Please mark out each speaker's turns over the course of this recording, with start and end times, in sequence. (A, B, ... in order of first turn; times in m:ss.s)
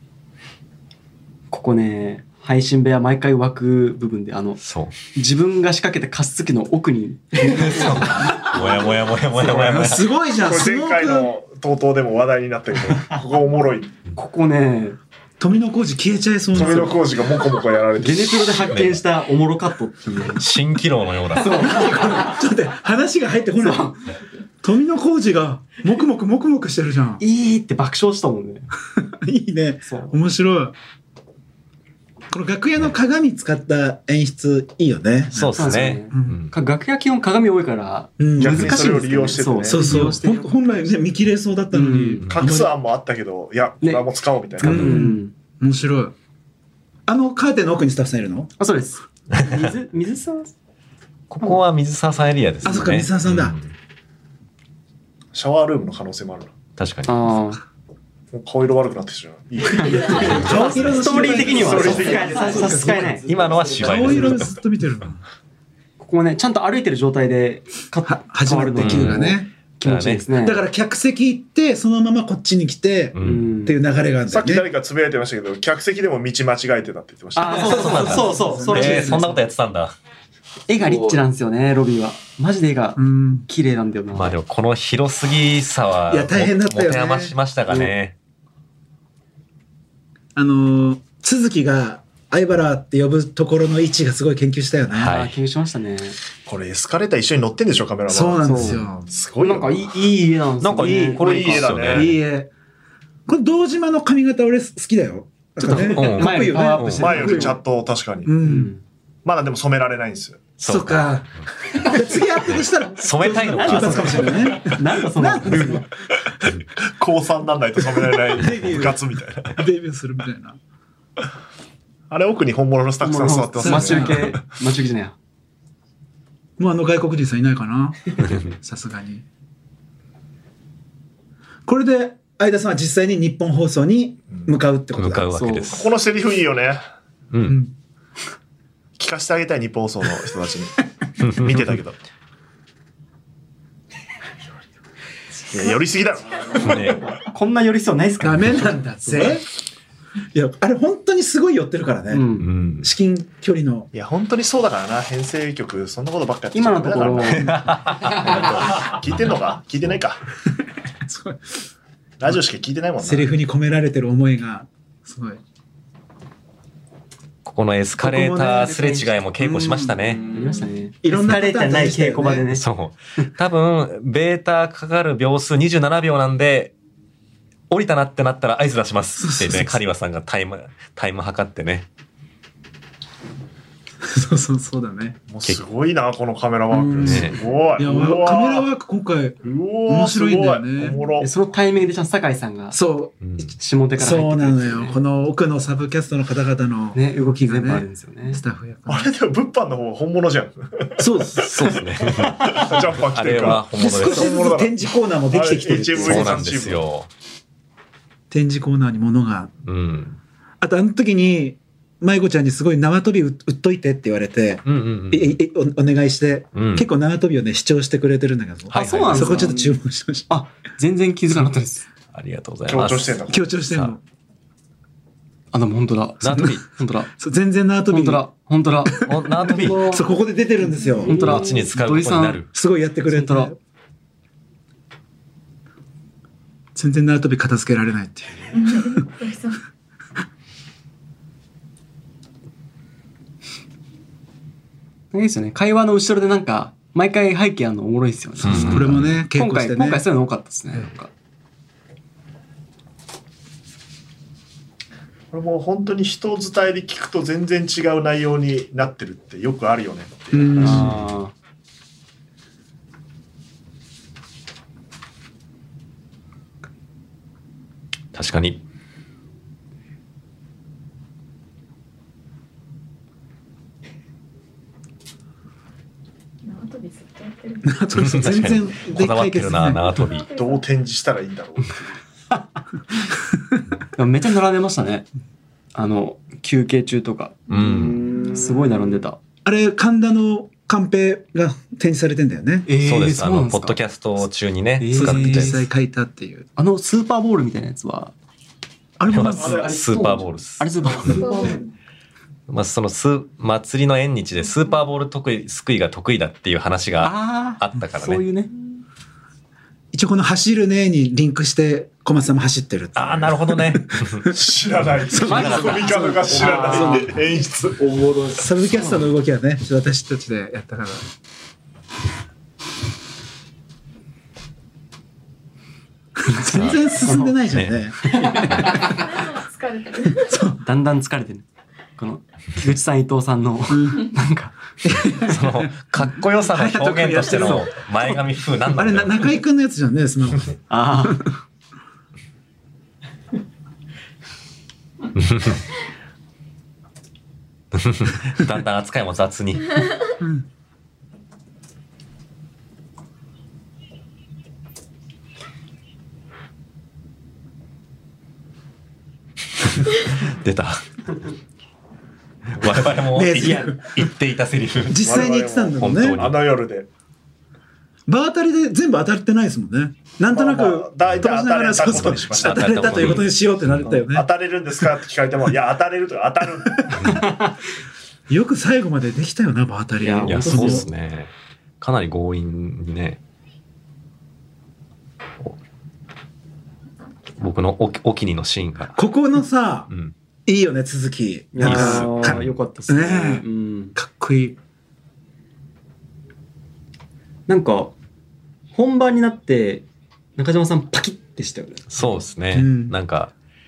0:01.5-0:04.6 A
0:04.6-0:05.0 B
0:05.1-0:08.8 A
0:07.4-0:10.1 B
0:08.2-0:08.6 C
0:09.4-0:11.3 C
0:10.4-0:13.9 D
0:14.1-0:15.0 A
0:15.4-0:17.0 C
0:16.5-0:18.6 D
0:16.6-0:17.0 A
0:18.0-0:20.5 A
0:18.7-0:19.0 B
0:20.3-0:21.7 B
0:21.4-0:22.4 A
0:21.5-0:23.9 C
0:23.6-0:24.0 A
0:24.6-0:27.2 C
0:27.2-0:28.7 A
0:28.9-0:30.7 C
0:29.8-0:30.2 A
0:32.3-0:36.4 C
0:35.3-0:36.5 B
0:35.5-0:41.0 A
0:38.2-0:39.0 C
0:38.4-0:40.2 D
0:39.6-0:42.7 C
0:41.7-0:42.2 A
0:42.3-0:45.0 D
0:44.6-0:45.3 A
0:44.6-0:46.1 C
0:47.1-0:48.5 C
0:48.6-0:50.5 A
0:49.3-0:49.7 B
0:51.3-0:53.7 B
0:52.6-0:53.5 C
0:55.3-0:56.5 D
0:56.8-0:57.2 B
0:57.1-0:57.6 A
0:58.3-1:02.8 D
0:59.7-1:04.4 A
1:00.1-1:05.2 C
1:00.3-1:01.8 B
1:03.1-1:04.6 B
1:06.0-1:10.6 A
1:08.0-1:09.5 C
1:08.8-1:09.3 B
1:09.8-1:10.3 B
1:10.4-1:14.7 C
1:13.1-1:13.5 B
1:13.2-1:13.8 A
1:14.3-1:18.2 D
1:17.3-1:19.4 A
1:17.5-1:19.9 B
1:17.7-1:19.4 C
1:20.7-1:24.3 A
1:23.0-1:23.4 C
1:24.1-1:28.1 B
1:26.1-1:27.3 C
1:27.7-1:27.9 A
1:30.3-1:35.1 C
1:34.9-1:35.3 B
1:35.0-1:36.2 A
1:36.4-1:39.9 D
1:38.1-1:39.1 C
1:38.4-1:38.9 A
1:39.4-1:41.7 A
1:40.6-1:42.2 B
1:40.8-1:41.2 C
1:41.2-1:42.2 D
1:41.9-1:42.5 C
1:43.3-1:47.6 C
1:45.6-1:47.6 A
1:45.7-1:47.3 B
1:47.0-1:48.3 D
1:48.2-1:48.7 C
1:48.4-1:48.8 A
1:49.2-1:50.4 D
1:50.6-1:51.1 B
1:50.6-1:55.8 C
1:53.0-1:54.5 B
1:53.4-1:55.8 A
1:56.4-1:59.6 D
1:58.2-2:00.6 C
2:02.1-2:04.4 D
2:03.0-2:05.1 A
2:03.6-2:04.4 C
2:06.6-2:09.2 C
2:11.6-2:15.3 C
2:14.9-2:15.9 B
2:15.3-2:15.8 A
2:15.7-2:16.8 D
2:17.3-2:17.6 B
2:17.4-2:17.7 C
2:19.0-2:22.0 D
2:21.2-2:21.8 B
2:25.5-2:27.1 D
2:26.6-2:27.0 B
2:27.1-2:29.4 A
2:28.2-2:29.5 C
2:30.3-2:33.9 C
2:32.1-2:32.5 A
2:32.4-2:32.9 B
2:33.9-2:40.2 D
2:36.5-2:37.6 A
2:37.3-2:39.2 B
2:37.5-2:37.7 C
2:41.0-2:41.6 C
2:42.2-2:43.3 D
2:43.0-2:45.4 C
2:47.4-2:50.4 B
2:48.0-2:52.4 C
2:48.6-2:49.2 A
2:50.2-2:52.6 A
2:52.5-2:56.7 B
2:57.7-3:01.9 B
2:59.2-2:59.8 C
3:04.0-3:05.2 C
3:05.3-3:08.6 D
3:06.7-3:11.0 C
3:07.0-3:07.4 B
3:09.4-3:11.3 D
3:11.2-3:12.8 A
3:12.7-3:13.1 C
3:13.2-3:13.5 B
3:13.4-3:15.0 A
3:14.0-3:19.1 C
3:16.9-3:18.4 A
3:18.9-3:24.8 D
3:21.0-3:21.6 C
3:21.4-3:24.4 B
3:23.7-3:26.4 C
3:25.3-3:26.8 D
3:26.0-3:27.1 B
3:28.3-3:29.5 C
3:29.6-3:30.2 B
3:30.6-3:40.3 C
3:34.6-3:35.4 B
3:36.5-3:36.9 B
3:38.7-3:39.5 B
3:38.7-3:39.8 A
3:40.3-3:41.8 A
3:42.1-3:43.9 B
3:42.7-3:43.5 D
3:43.3-3:44.0 C
3:45.5-3:47.1 A
3:46.2-3:46.7 B
3:47.1-3:48.2 C
3:47.9-3:50.1 A
3:49.0-3:51.3 C
3:49.0-3:49.9 B
3:50.8-3:51.1 E
3:51.0-3:52.4 A
3:51.0-3:52.5 B
3:52.5-3:53.6 C
3:53.1-3:53.5 A
3:56.7-3:59.0 C
3:58.5-3:59.6 E
4:05.1-4:11.1 A
4:08.4-4:09.2 B
4:08.4-4:10.0 C
4:15.3-4:20.8 D
4:20.3-4:21.0 C
4:20.6-4:21.3 A
4:28.1-4:28.6 B
4:36.4-4:38.5 E
4:37.6-4:40.0 C
4:37.9-4:40.3 B
4:39.7-4:40.7 E
4:40.3-4:42.0 D
4:43.9-4:45.1 A
4:45.7-4:49.2 A
4:47.5-4:48.1 B
4:47.5-4:48.4 E
4:49.4-4:52.7 C
4:52.7-4:53.8 A
4:52.8-4:55.6 B
4:54.8-4:55.6 A
4:54.9-4:56.5 C
4:56.6-4:58.1 A
4:59.0-4:59.7 C
4:59.1-5:01.2 B
4:59.3-5:01.6 A
4:59.4-4:59.7 D
5:01.0-5:01.6 E
5:02.5-5:08.2 B
5:04.4-5:04.7 E
5:07.0-5:08.5 A
5:09.9-5:14.4 C
5:12.9-5:14.3 B
5:14.3-5:18.2 D
5:15.1-5:17.2 C
5:15.1-5:16.1 B
5:15.2-5:17.2 A
5:18.0-5:19.1 A
5:18.3-5:21.1 C
5:26.3-5:28.8 C
5:26.3-5:27.4 A
5:26.5-5:26.9 B
5:27.5-5:27.9 B
5:28.0-5:28.7 A
5:28.5-5:28.8 B
5:28.7-5:30.4 E
5:30.1-5:30.6 C
5:30.6-5:35.2 A
5:33.7-5:34.1 C
5:34.8-5:41.2 C
5:35.2-5:39.3 B
5:40.7-5:41.3 A
5:45.2-5:45.6 B
5:47.7-5:49.9 B
5:59.7-6:00.8 B
6:02.5-6:05.0 B
6:02.6-6:04.0 C
6:04.9-6:06.2 C
6:05.0-6:06.9 D
6:05.7-6:06.4 B
6:08.1-6:14.3 C
6:10.3-6:13.3 D
6:11.8-6:13.9 B
6:14.0-6:17.3 D
6:17.1-6:17.5 A
6:18.3-6:20.8 C
6:20.0-6:20.9 A
6:20.2-6:23.2 B
6:27.4-6:29.0 B
6:28.9-6:29.9 C
6:30.4-6:34.6 C
6:31.5-6:33.9 A
6:31.6-6:32.5 B
6:37.5-6:37.9 A
6:38.7-6:39.8 A
6:40.4-6:42.2 A
6:41.9-6:43.3 B
6:42.5-6:42.9 C